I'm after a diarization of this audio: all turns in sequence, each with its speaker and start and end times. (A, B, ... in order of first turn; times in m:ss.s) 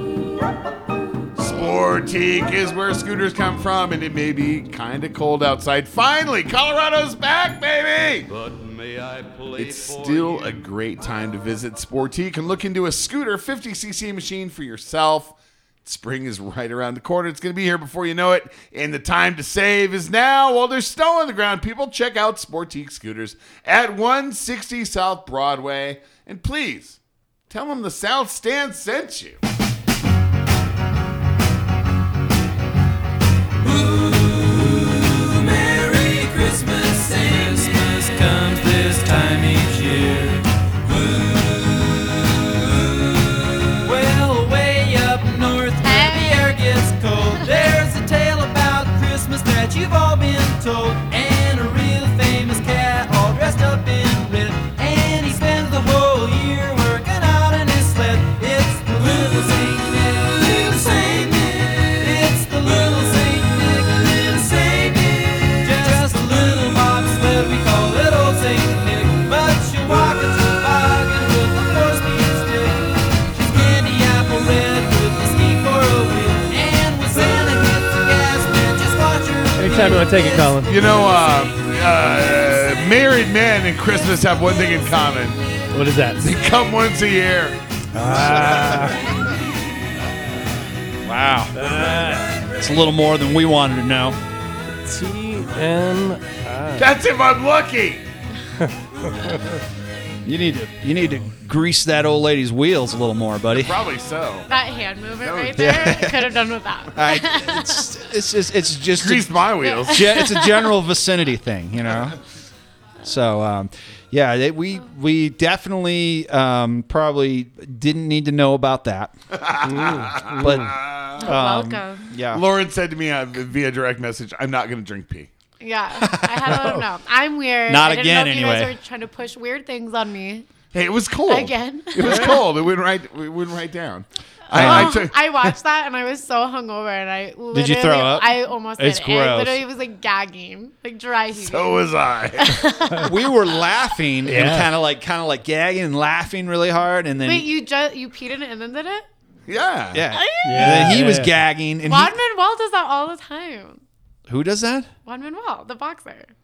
0:01.4-0:08.3 A
0:08.3-0:10.7 B
0:09.5-0:27.0 A
0:27.5-0:29.4 A
0:33.6-1:20.6 C
0:45.8-0:46.4 D
1:19.6-1:20.8 E
1:20.7-1:25.4 A
1:25.7-1:26.2 E
1:26.2-1:27.6 A
1:28.0-1:29.0 F
1:28.0-1:29.1 E
1:31.0-1:31.6 F
1:31.5-1:32.3 E
1:32.5-1:34.2 F
1:34.8-1:36.9 E
1:36.8-1:38.0 A
1:40.2-1:43.8 F
1:43.6-1:44.5 A
1:44.5-1:47.9 D
1:45.2-1:45.9 A
1:45.6-1:46.3 F
1:47.0-1:49.3 F
1:49.0-1:50.0 A
1:49.6-1:50.7 D
1:49.9-1:52.2 F
1:53.0-1:59.1 F
1:59.3-2:01.3 A
1:59.6-2:00.7 E
2:00.4-2:02.4 F
2:01.2-2:02.0 D
2:02.3-2:05.3 A
2:05.6-2:10.5 D
2:06.0-2:06.8 F
2:06.6-2:06.8 E
2:07.7-2:08.7 F
2:10.7-2:15.2 A
2:11.3-2:12.4 D
2:14.5-2:21.9 D
2:14.6-2:15.0 F
2:17.5-2:19.6 F
2:21.4-2:22.7 A
2:22.4-2:23.1 D
2:23.0-2:27.5 F
2:24.3-2:24.7 E
2:27.2-2:29.1 D
2:29.5-2:30.0 A
2:29.9-2:32.2 F
2:30.1-2:31.0 D
2:30.4-2:31.3 E
2:31.9-2:33.8 D
2:34.3-2:34.9 F
2:35.0-2:36.3 D